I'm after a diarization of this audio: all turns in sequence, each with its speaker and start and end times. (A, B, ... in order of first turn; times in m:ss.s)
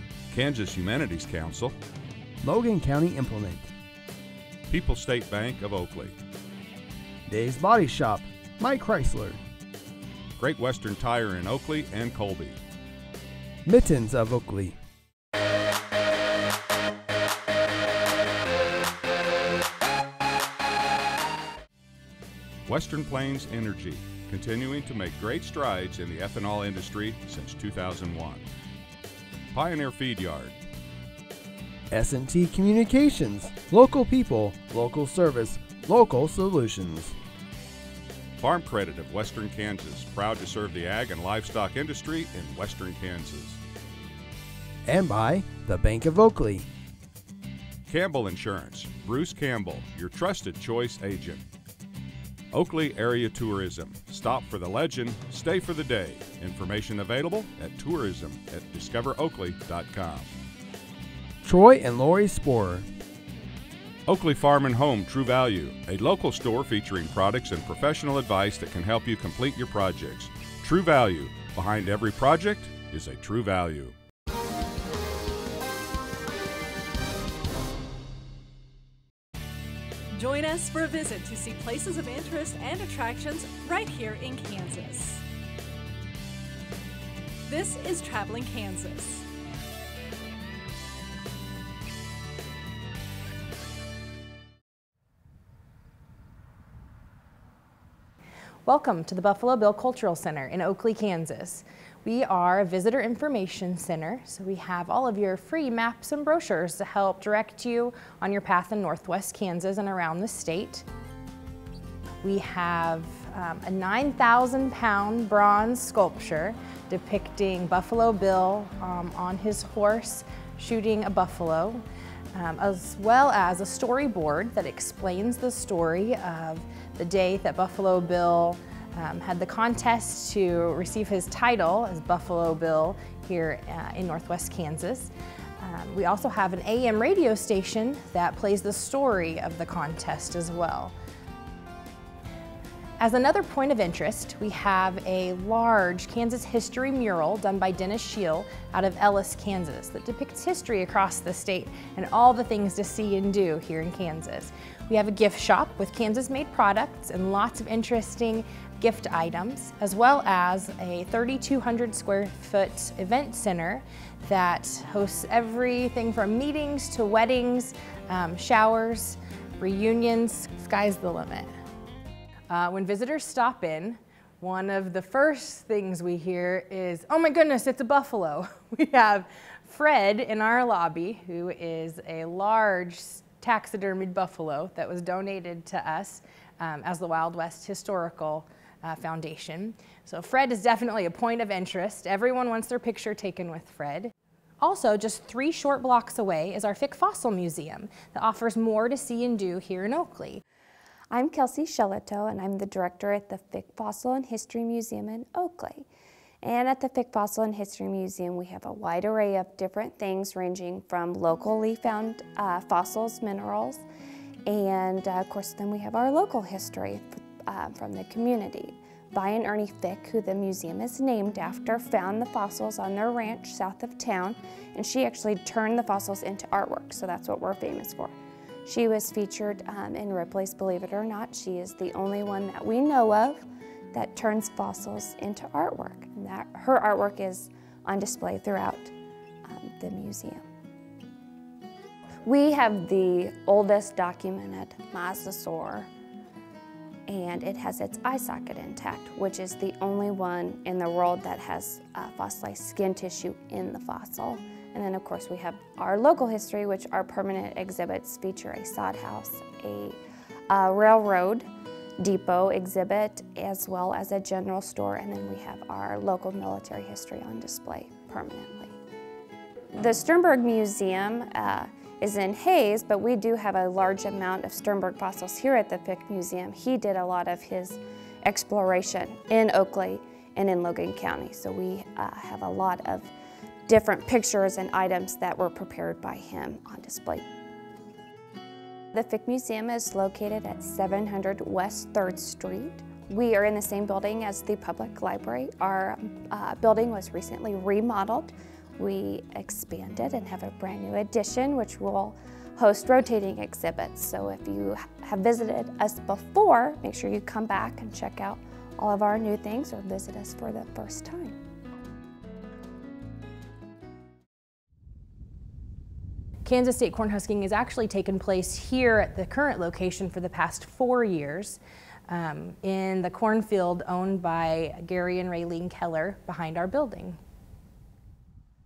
0:00.3-0:01.8 A
0:02.4-0:03.7 B
0:04.7-0:06.1 A
0:07.3-0:09.4 B
0:10.4-0:12.6 A
0:13.6-0:14.8 B
0:22.6-0:28.5 A
0:29.5-0:30.6 A
0:31.9-0:37.2 B
0:38.4-0:43.6 A
0:44.8-0:46.7 B
0:47.9-0:51.4 A
0:52.5-1:00.3 A
1:01.4-1:02.9 B
1:04.1-1:14.0 A
1:20.1-1:25.2 C
1:27.4-1:29.2 C
1:38.6-1:50.8 D
1:52.2-2:01.8 D
2:02.3-2:20.9 D
2:23.0-2:51.5 D
2:52.5-3:20.4 D
3:21.1-3:25.9 E
3:26.4-3:33.8 E
3:34.5-3:48.1 E
3:48.6-3:58.9 E
3:59.4-4:00.4 E
4:02.2-4:05.9 E
4:07.1-4:20.0 E
4:20.5-4:21.5 E
4:22.0-4:28.8 E
4:29.7-4:43.1 E
4:43.7-4:47.2 E
4:48.9-5:11.4 E
5:16.4-5:27.2 D